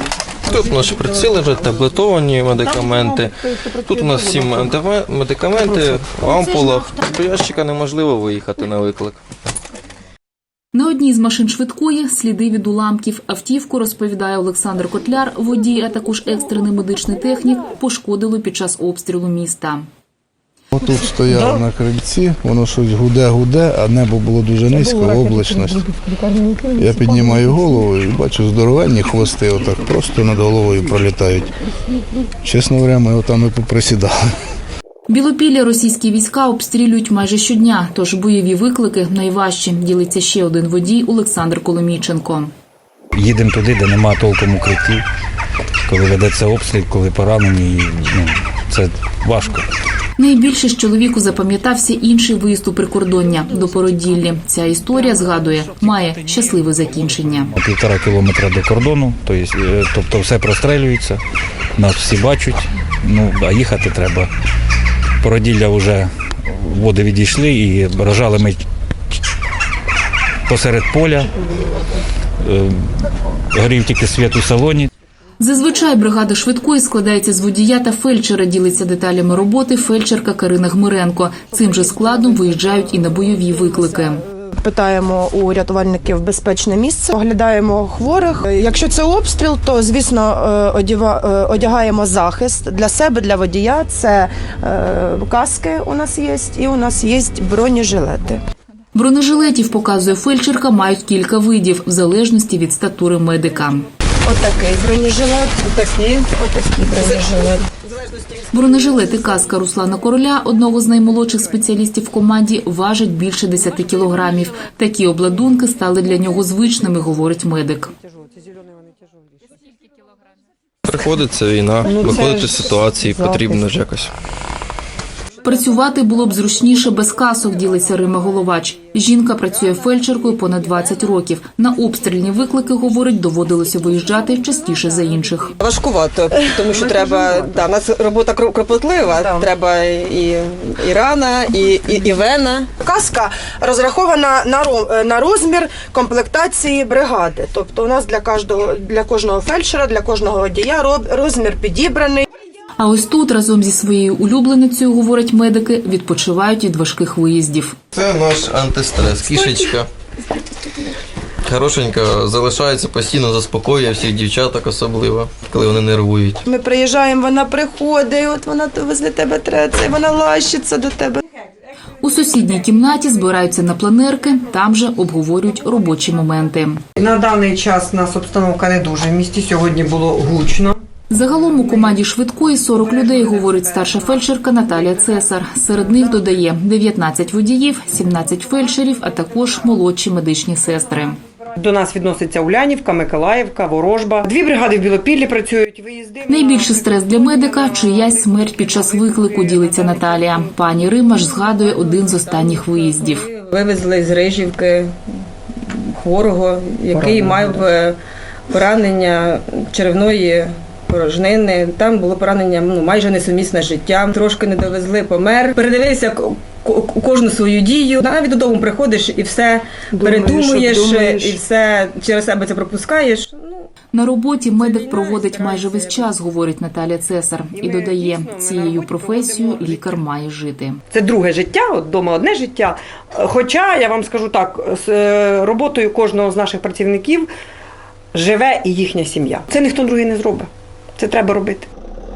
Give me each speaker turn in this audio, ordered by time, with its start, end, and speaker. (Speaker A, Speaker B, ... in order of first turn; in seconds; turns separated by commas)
Speaker A: 0.5-9.2, Speaker B: 2.6-4.7, Speaker B: 5.7-6.0, Speaker C: 10.7-19.9, Speaker D: 20.7-25.9, Speaker E: 24.7-27.8, Speaker D: 26.7-31.5, Speaker D: 32.4-34.2, Speaker C: 35.1-42.5, Speaker F: 43.1-45.0, Speaker F: 45.8-49.6, Speaker C: 50.2-57.5, Speaker F: 56.0-61.2, Speaker F: 61.8-64.3, Speaker F: 65.2-68.6, Speaker F: 70.5-71.3, Speaker F: 72.4-72.8, Speaker F: 73.5-74.9, Speaker C: 75.4-84.2, Speaker E: 83.5-98.4, Speaker C: 98.9-103.8, Speaker E: 104.2-107.7, Speaker C: 108.5-117.9, Speaker B: 118.5-118.9, Speaker A: 120.8-124.1, Speaker B: 121.8-123.6, Speaker C: 125.4-135.5, Speaker G: 135.6-142.7, Speaker E: 136.6-137.4, Speaker E: 139.0-139.5, Speaker E: 142.8-152.2, Speaker C: 152.8-157.7, Speaker A: 157.9-159.9, Speaker E: 159.2-159.7, Speaker A: 161.4-166.4, Speaker E: 166.4-171.2, Speaker C: 172.0-176.8, Speaker B: 176.9-180.8, Speaker C: 181.1-191.2, Speaker B: 191.6-200.4, Speaker C: 196.3-203.2, Speaker G: 201.2-204.9, Speaker G: 205.6-208.0, Speaker B: 206.9-207.7, Speaker G: 208.5-223.7, Speaker E: 220.0-221.4, Speaker C: 223.9-230.8, Speaker G: 224.5-226.1, Speaker B: 227.5-230.0, Speaker B: 230.9-237.3, Speaker B: 238.1-241.7